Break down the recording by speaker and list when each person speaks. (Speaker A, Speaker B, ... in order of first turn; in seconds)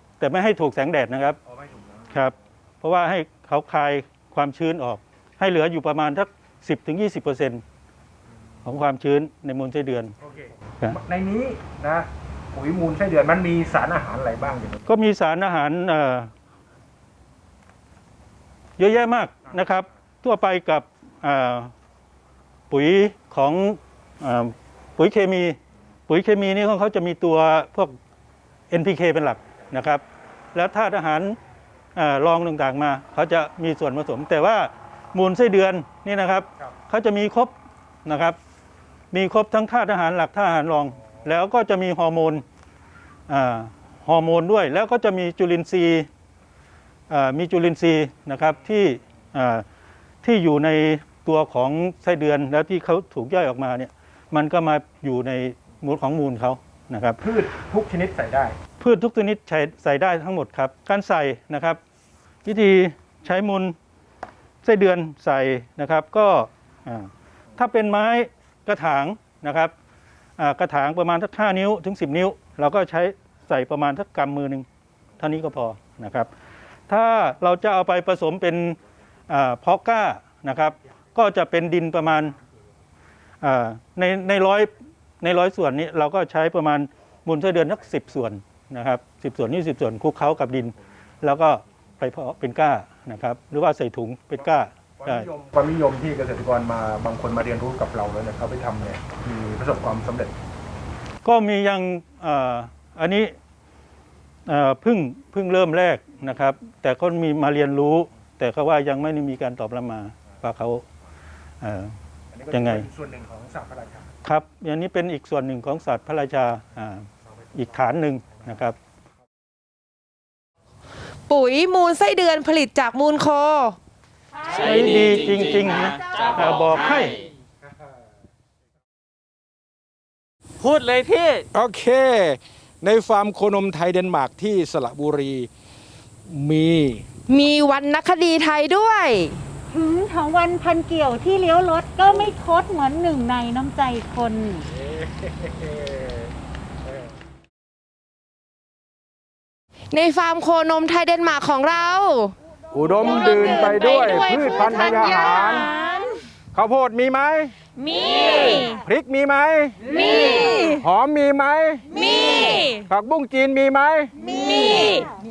Speaker A: 0.2-1.4, 2.1-7.6, 8.6-10.1, 14.8-16.3, 18.8-21.7, 22.7-27.9, 28.7-30.0, 30.5-31.4, 31.9-37.5, 38.0-38.4, 39.1-42.4, 43.3-46.1, 47.1-49.6, 50.2-57.2, 58.8-61.8, 62.4-63.8, 64.6-69.7, 70.4-74.7, 75.2-76.3, 76.9-78.8, 79.3-82.4, 83.4-95.3, 101.2-103.3, 104.5-110.8, 111.6-112.0, 112.5-112.9, 114.2-118.8, 124.5-127.2
Speaker B: 1.4-2.3, 10.2-14.8, 57.2-58.6, 95.0-100.3, 112.3-114.1, 131.5-135.5, 136.3-137.1, 144.8-146.3, 152.7-155.7, 156.5-157.5, 158.8-159.8, 160.8-161.8, 162.9-164.1
Speaker C: 121.3-123.8, 137.3-139.4, 149.9-152.3, 152.9-156.2, 157.8-158.8, 159.8-160.8, 161.9-162.8, 164.2-165.1
Speaker D: 124.5-127.0, 130.6-131.5
Speaker E: 139.7-144.7